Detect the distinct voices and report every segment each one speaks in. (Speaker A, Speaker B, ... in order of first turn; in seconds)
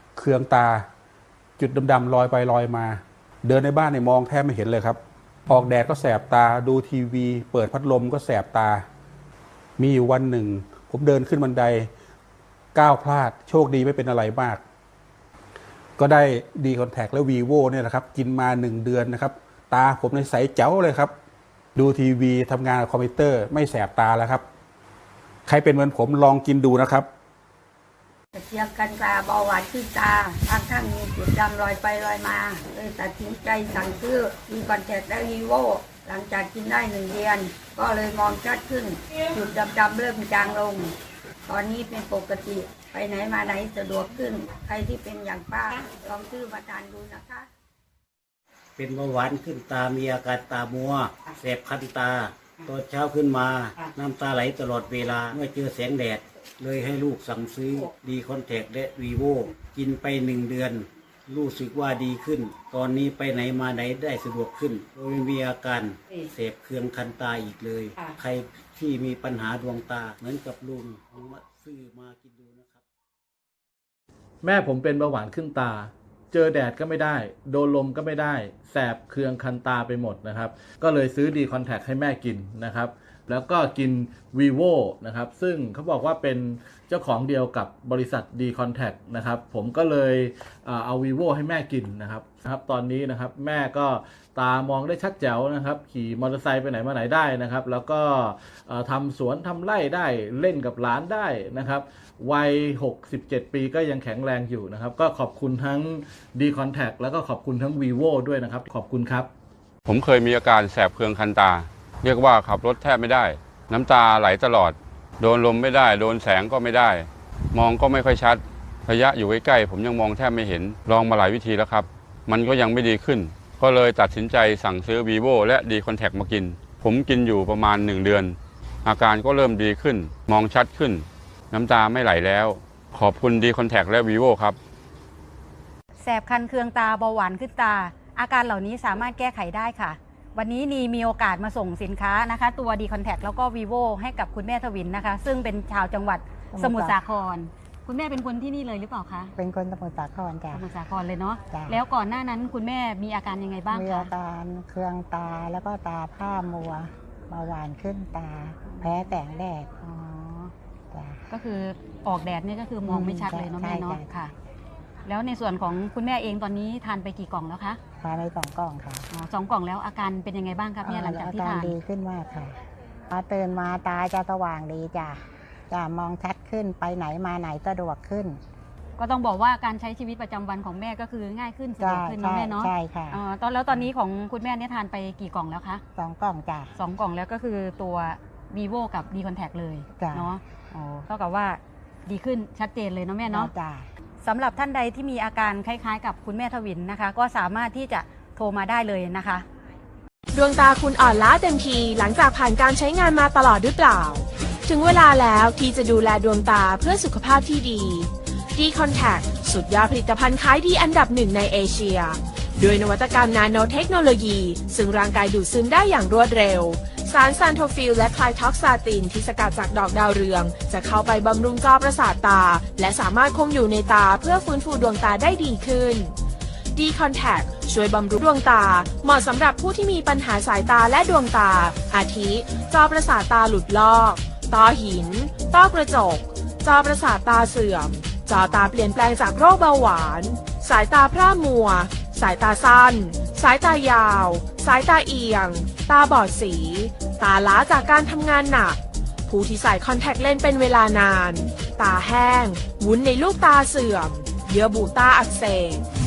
Speaker A: 0.1-0.9, 1.6-8.8, 9.8-11.9, 12.7-14.6, 16.0-21.1, 21.8-24.4, 25.5-27.1
Speaker B: 28.3-40.9, 41.5-47.5
Speaker C: 48.8-72.8
Speaker D: 74.4-109.3
Speaker E: 109.8-134.6
Speaker F: 136.0-149.3, 150.5-154.1, 158.7-159.1, 159.8-160.5, 161.3-164.3, 165.0-167.8, 169.1-171.7, 179.0-185.8, 186.8-193.5, 194.2-199.4
Speaker G: 146.5-147.0, 149.3-150.7, 151.5-151.8, 153.7-159.8, 160.9-161.2, 162.8-164.0, 168.0-169.1, 170.8-172.6, 173.1-178.4, 181.8-183.2, 185.9-186.7, 189.9-190.3, 193.2-193.9
Speaker H: 200.3-226.1, 226.7-255.8